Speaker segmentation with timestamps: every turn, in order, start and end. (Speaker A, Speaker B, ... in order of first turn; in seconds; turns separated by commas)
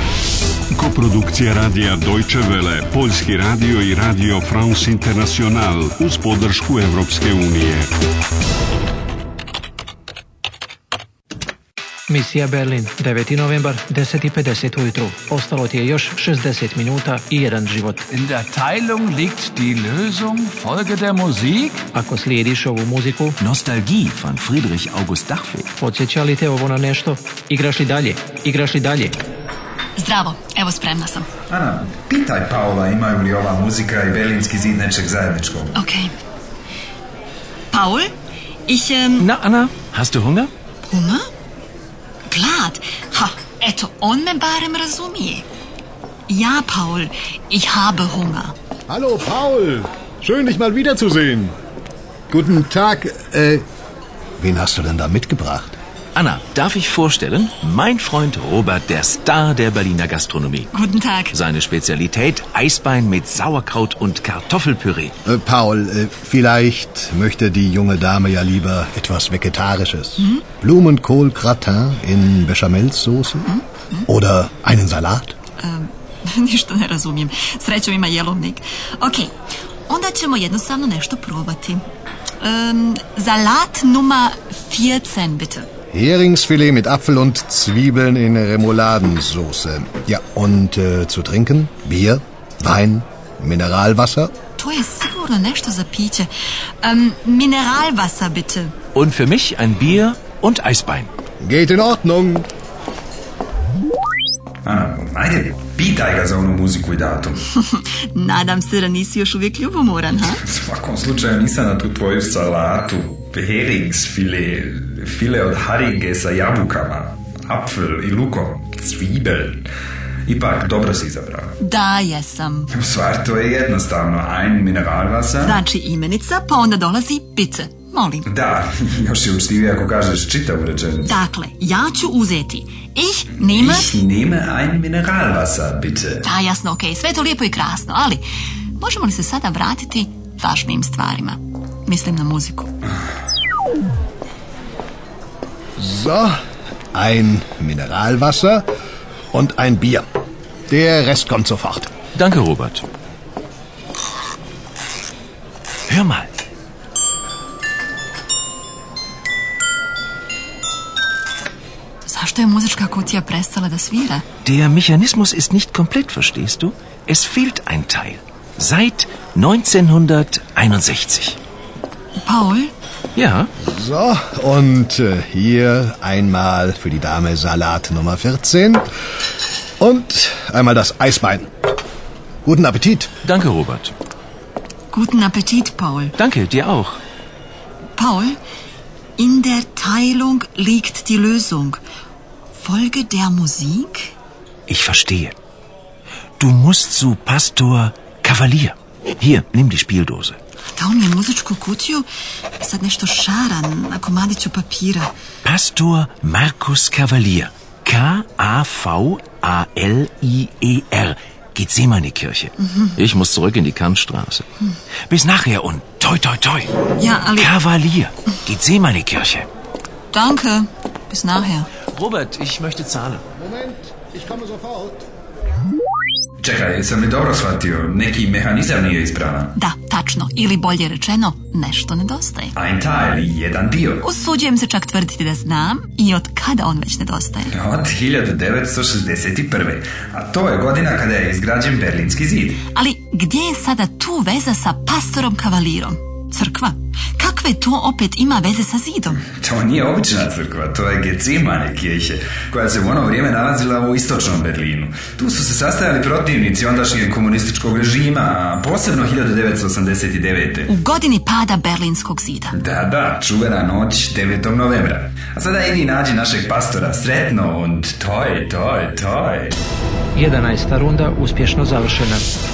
Speaker A: 0.7-7.9, Speaker B: 12.1-18.0, Speaker C: 18.3-21.7, Speaker B: 21.9-23.4, Speaker D: 23.4-25.7, Speaker B: 25.8-29.2, Speaker E: 29.9-31.3, Speaker F: 31.5-35.7, Speaker E: 35.7-36.1, Speaker E: 37.7-38.1, Speaker E: 38.7-39.3, Speaker D: 39.2-40.5, Speaker E: 40.8-41.2, Speaker E: 42.3-45.5, Speaker E: 46.3-48.5, Speaker G: 48.9-51.5, Speaker G: 52.3-53.6, Speaker G: 54.4-55.8, Speaker D: 56.1-60.7, Speaker E: 60.7-61.3, Speaker D: 61.3-65.1, Speaker G: 65.2-73.5, Speaker E: 70.2-70.4, Speaker E: 73.4-74.1, Speaker G: 74.1-75.3, Speaker E: 75.6-79.3, Speaker E: 79.9-81.8, Speaker E: 82.4-85.7, Speaker G: 85.9-94.3, Speaker E: 94.6-96.3, Speaker E: 96.8-98.7, Speaker D: 98.9-101.1, Speaker G: 101.4-102.5, Speaker F: 104.6-107.4, Speaker E: 107.5-110.4, Speaker F: 110.2-119.7, Speaker F: 120.2-121.5, Speaker E: 121.6-122.7, Speaker F: 122.7-125.6, Speaker E: 125.4-128.3, Speaker F: 128.2-131.1, Speaker E: 131.1-134.0, Speaker F: 133.5-136.2, Speaker E: 136.2-138.2, Speaker E: 138.8-142.8, Speaker G: 145.8-146.3, Speaker G: 146.9-148.7, Speaker G: 149.3-150.0, Speaker G: 150.7-151.9, Speaker D: 152.1-152.8, Speaker D: 155.9-156.3, Speaker E: 162.1-164.2, Speaker D: 164.4-171.4, Speaker E: 172.2-172.7, Speaker D: 173.2-173.5, Speaker G: 173.6-178.8, Speaker G: 179.8-181.5, Speaker G: 182.4-183.1, Speaker D: 183.2-183.9, Speaker E: 184.9-186.1, Speaker D: 186.2-187.0, Speaker E: 187.9-188.4, Speaker E: 189.2-191.8, Speaker E: 192.5-194.1, Speaker D: 194.7-195.3, Speaker D: 196.4-200.4, Speaker E: 200.7-202.1, Speaker E: 202.6-205.1, Speaker D: 205.4-214.4, Speaker E: 212.7-212.9, Speaker D: 215.1-216.7, Speaker E: 216.9-217.5, Speaker D: 217.4-219.5, Speaker E: 220.1-221.7, Speaker D: 221.9-223.2, Speaker G: 223.4-225.0, Speaker F: 226.4-229.5, Speaker E: 229.5-232.5, Speaker F: 232.6-234.0, Speaker E: 234.0-237.5, Speaker F: 237.5-242.6, Speaker E: 242.7-249.2, Speaker F: 249.2-260.7, Speaker E: 260.7-262.6, Speaker F: 262.5-269.6, Speaker B: 270.1-272.2